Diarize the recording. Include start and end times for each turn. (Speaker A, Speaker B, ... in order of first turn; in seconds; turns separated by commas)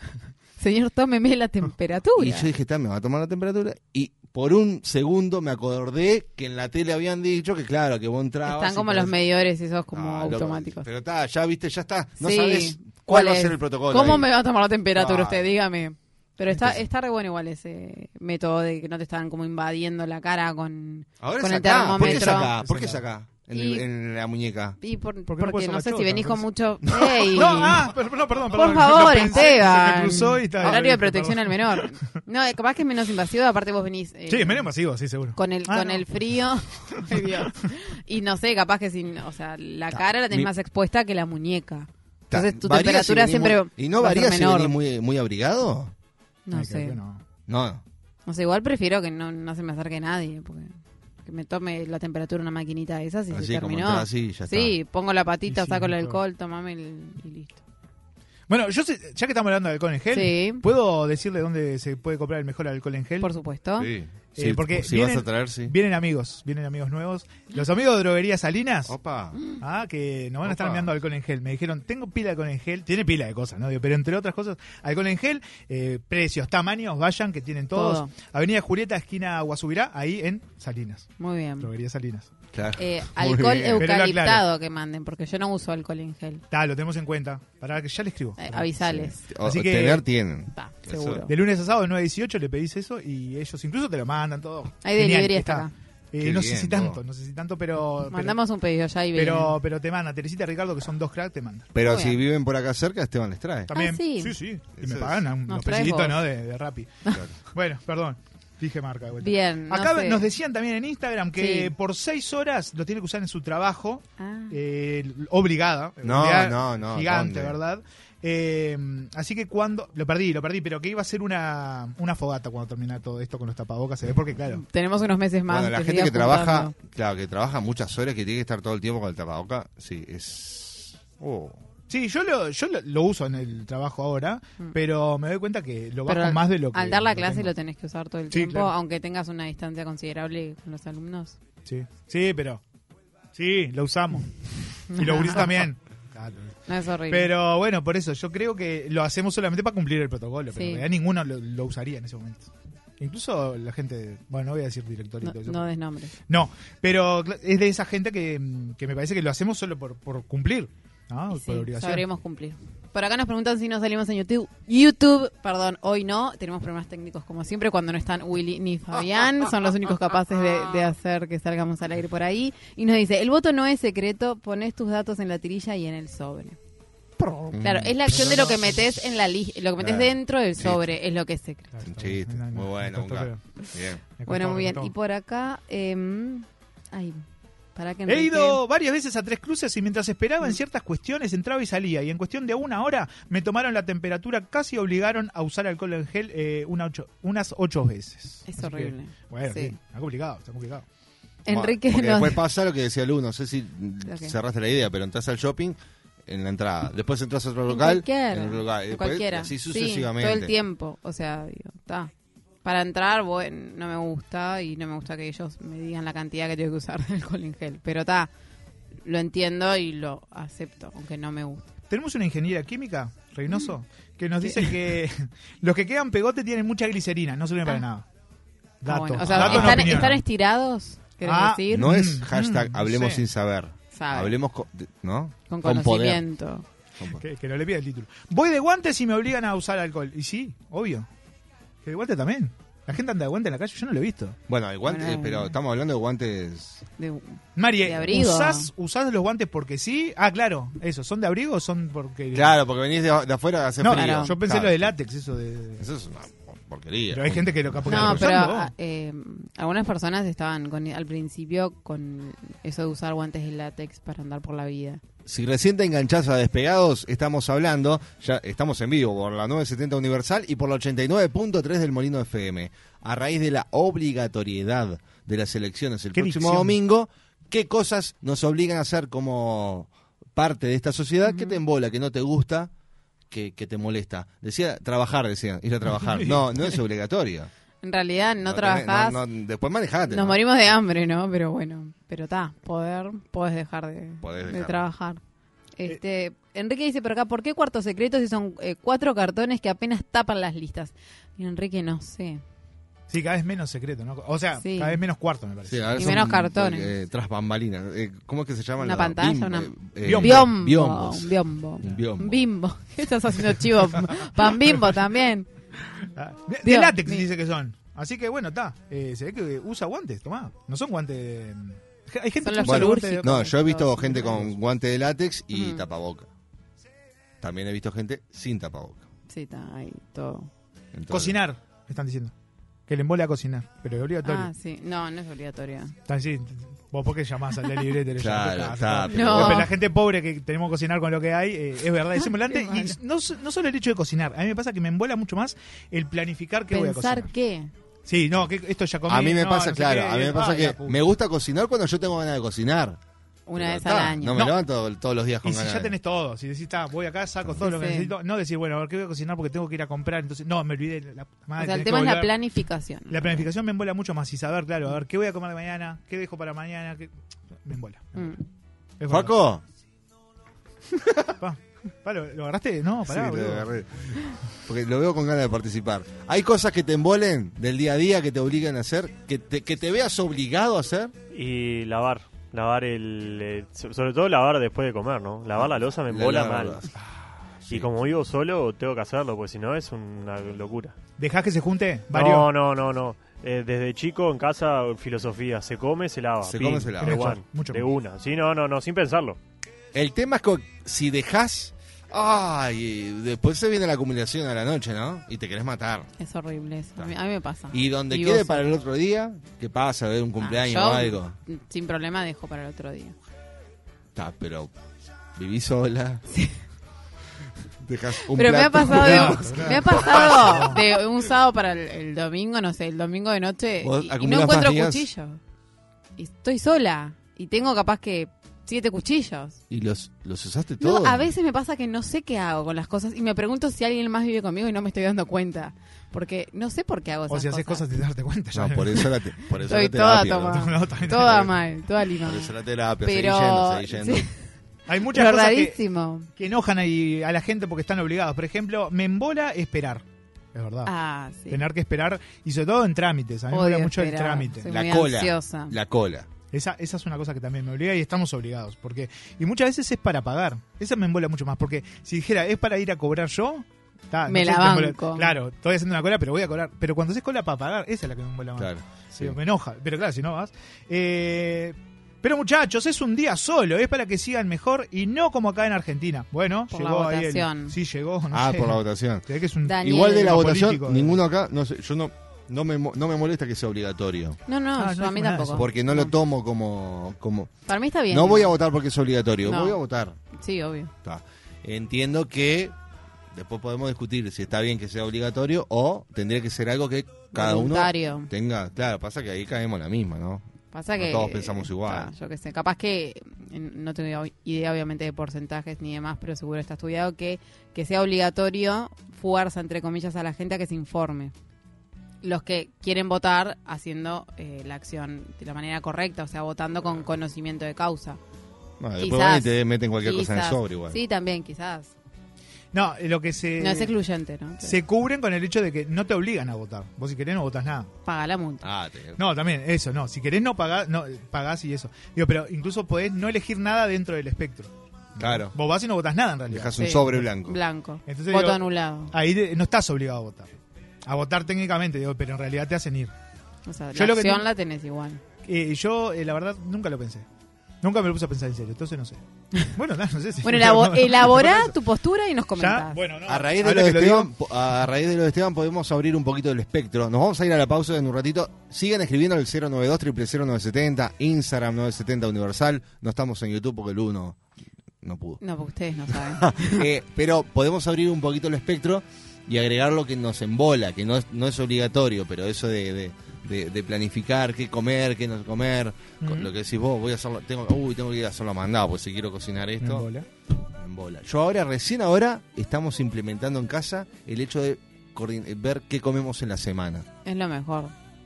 Speaker A: 0.6-2.5, Speaker B: 2.1-9.2, Speaker A: 8.4-10.9, Speaker B: 9.9-14.3, Speaker A: 12.2-22.5, Speaker B: 14.9-15.5, Speaker B: 21.2-24.8, Speaker C: 21.9-23.0, Speaker A: 23.5-23.8, Speaker A: 24.8-27.9, Speaker C: 25.3-26.5, Speaker C: 27.1-32.1, Speaker A: 28.5-34.7, Speaker C: 34.3-36.1, Speaker A: 35.4-44.7, Speaker C: 36.9-37.5, Speaker B: 42.3-45.9, Speaker A: 46.5-47.0, Speaker C: 46.5-47.2, Speaker B: 47.5-47.8, Speaker A: 48.3-50.7, Speaker A: 51.2-57.6, Speaker B: 53.3-54.8, Speaker C: 55.5-56.2, Speaker C: 58.5-63.3, Speaker A: 60.1-60.6, Speaker A: 63.2-63.9, Speaker B: 63.8-65.7, Speaker C: 64.4-69.0, Speaker B: 68.9-69.4, Speaker C: 69.6-82.3, Speaker B: 70.4-70.9, Speaker A: 77.7-78.1, Speaker A: 81.2-81.7, Speaker B: 82.5-83.9, Speaker A: 82.8-86.4, Speaker C: 83.8-84.5, Speaker C: 86.5-88.7, Speaker A: 88.4-89.2, Speaker B: 88.8-91.2, Speaker C: 89.4-90.0, Speaker A: 90.5-91.3, Speaker C: 91.3-98.4, Speaker A: 94.8-95.7, Speaker B: 96.2-97.0, Speaker A: 98.1-99.6, Speaker C: 99.1-101.7, Speaker B: 101.7-103.7, Speaker A: 101.8-102.2, Speaker C: 103.7-106.9, Speaker A: 103.7-104.4, Speaker B: 104.8-105.2, Speaker A: 105.5-106.2, Speaker C: 107.5-124.6, Speaker A: 109.2-110.3, Speaker A: 111.4-111.7, Speaker A: 114.2-114.6, Speaker B: 116.0-117.6, Speaker A: 124.5-126.7, Speaker B: 125.5-131.6, Speaker C: 131.9-137.5, Speaker A: 136.1-141.4, Speaker C: 138.3-138.7, Speaker C: 141.7-142.6, Speaker C: 143.3-144.3, Speaker A: 144.9-145.7, Speaker C: 144.9-146.5, Speaker A: 146.7-147.3, Speaker C: 147.1-155.6, Speaker A: 150.5-150.8, Speaker A: 155.2-156.1, Speaker C: 156.3-162.1, Speaker A: 161.3-176.6, Speaker B: 177.3-178.6, Speaker A: 177.6-181.8, Speaker B: 179.8-180.9, Speaker C: 181.8-183.4, Speaker B: 181.9-184.0, Speaker C: 184.2-184.9, Speaker A: 184.3-187.2, Speaker A: 187.8-188.6, Speaker C: 188.1-200.8, Speaker A: 198.5-199.8, Speaker A: 201.5-202.4, Speaker B: 201.5-210.5, Speaker A: 204.1-204.3, Speaker A: 207.7-212.1, Speaker A: 212.6-218.3, Speaker A: 219.1-221.7, Speaker C: 221.9-228.1, Speaker A: 224.4-224.7, Speaker C: 228.8-230.2, Speaker A: 228.9-232.0, Speaker B: 229.3-230.1, Speaker C: 231.2-233.2, Speaker B: 231.7-236.2, Speaker A: 233.9-234.4, Speaker A: 235.5-236.6, Speaker C: 237.1-241.1, Speaker C: 241.8-244.4, Speaker B: 244.5-246.8, Speaker A: 244.9-245.6, Speaker A: 247.0-248.7, Speaker C: 247.6-252.6, Speaker B: 252.3-254.9, Speaker C: 253.8-255.8, Speaker A: 253.9-254.4, Speaker B: 255.8-258.2, Speaker C: 257.1-258.7, Speaker A: 257.9-265.0, Speaker B: 265.3-282.7, Speaker C: 276.1-276.8, Speaker A: 281.2-281.6, Speaker B: 283.3-287.5, Speaker C: 286.0-286.5, Speaker A: 287.8-289.2, Speaker B: 288.4-290.4, Speaker A: 290.1-295.2, Speaker B: 294.2-294.9, Speaker A: 295.8-302.4, Speaker C: 303.1-306.1, Speaker A: 304.6-305.0, Speaker B: 305.7-312.4, Speaker A: 306.0-306.9, Speaker A: 308.8-315.5, Speaker C: 310.0-310.5, Speaker C: 316.1-323.3, Speaker A: 316.6-317.3, Speaker A: 322.4-324.4, Speaker B: 322.6-326.3, Speaker C: 324.1-324.4, Speaker A: 325.5-325.8, Speaker B: 327.4-329.1, Speaker A: 329.3-330.5, Speaker B: 330.9-331.4, Speaker C: 331.1-332.3, Speaker C: 332.9-334.5, Speaker A: 334.2-335.9, Speaker C: 336.1-347.3, Speaker B: 338.2-339.7, Speaker A: 339.1-339.7, Speaker A: 342.2-343.0, Speaker A: 346.7-347.7, Speaker C: 348.1-351.0, Speaker B: 349.1-353.0, Speaker A: 353.5-354.5, Speaker B: 353.6-355.9, Speaker C: 355.4-362.3, Speaker A: 357.6-358.1, Speaker A: 361.6-363.5, Speaker C: 363.1-367.1, Speaker C: 367.6-368.3, Speaker C: 369.0-369.3, Speaker B: 369.1-369.6, Speaker C: 371.4-373.7, Speaker B: 373.1-374.1, Speaker B: 374.6-381.1, Speaker D: 381.3-386.9, Speaker B: 385.6-386.9, Speaker D: 387.7-390.9, Speaker C: 391.2-392.5, Speaker D: 392.1-399.4, Speaker B: 396.4-397.4, Speaker C: 397.0-397.9, Speaker B: 399.9-406.1, Speaker A: 406.2-408.7, Speaker B: 407.7-411.4, Speaker A: 410.4-413.1, Speaker B: 414.1-414.7, Speaker B: 415.4-416.2, Speaker B: 417.8-420.7, Speaker A: 418.4-425.4, Speaker C: 418.9-420.8, Speaker B: 423.8-425.1, Speaker A: 426.2-429.6, Speaker B: 429.7-431.3, Speaker A: 430.8-437.9, Speaker C: 437.3-439.1, Speaker B: 438.5-440.6, Speaker A: 439.7-442.5, Speaker C: 440.5-441.5, Speaker B: 442.2-444.3, Speaker A: 443.0-444.3, Speaker C: 444.9-445.8, Speaker A: 445.1-446.3, Speaker C: 446.4-450.9, Speaker A: 450.9-451.6, Speaker C: 451.5-454.7, Speaker A: 453.5-455.8, Speaker B: 454.7-456.3, Speaker C: 456.5-481.2, Speaker A: 464.3-465.4, Speaker B: 468.6-469.4, Speaker A: 476.7-477.8, Speaker B: 478.3-479.3, Speaker A: 479.6-480.4, Speaker B: 479.8-484.4, Speaker A: 484.5-486.1, Speaker C: 484.8-485.6, Speaker B: 485.6-487.5, Speaker A: 487.7-488.5, Speaker B: 488.1-490.1, Speaker A: 489.4-489.8, Speaker A: 490.3-490.9, Speaker B: 491.0-492.8, Speaker B: 493.3-502.1, Speaker A: 497.3-498.3, Speaker A: 500.7-511.3, Speaker A: 512.2-518.2, Speaker B: 518.8-521.0, Speaker A: 519.0-521.9, Speaker C: 522.7-523.9, Speaker A: 523.6-524.8, Speaker C: 524.6-527.9, Speaker A: 528.0-528.6, Speaker B: 528.6-529.2, Speaker C: 529.2-537.2, Speaker B: 535.2-535.5, Speaker B: 536.5-537.6, Speaker A: 536.8-539.1, Speaker C: 538.1-543.1, Speaker A: 543.6-545.2, Speaker C: 544.0-544.5, Speaker C: 545.4-547.3, Speaker C: 547.8-549.2, Speaker C: 549.8-551.7, Speaker A: 550.4-553.0, Speaker C: 552.6-554.3, Speaker B: 553.3-564.4, Speaker B: 565.0-565.4, Speaker A: 565.4-566.8, Speaker B: 566.1-580.1, Speaker C: 576.2-576.5, Speaker C: 579.8-580.3, Speaker B: 580.8-587.1, Speaker A: 587.2-587.9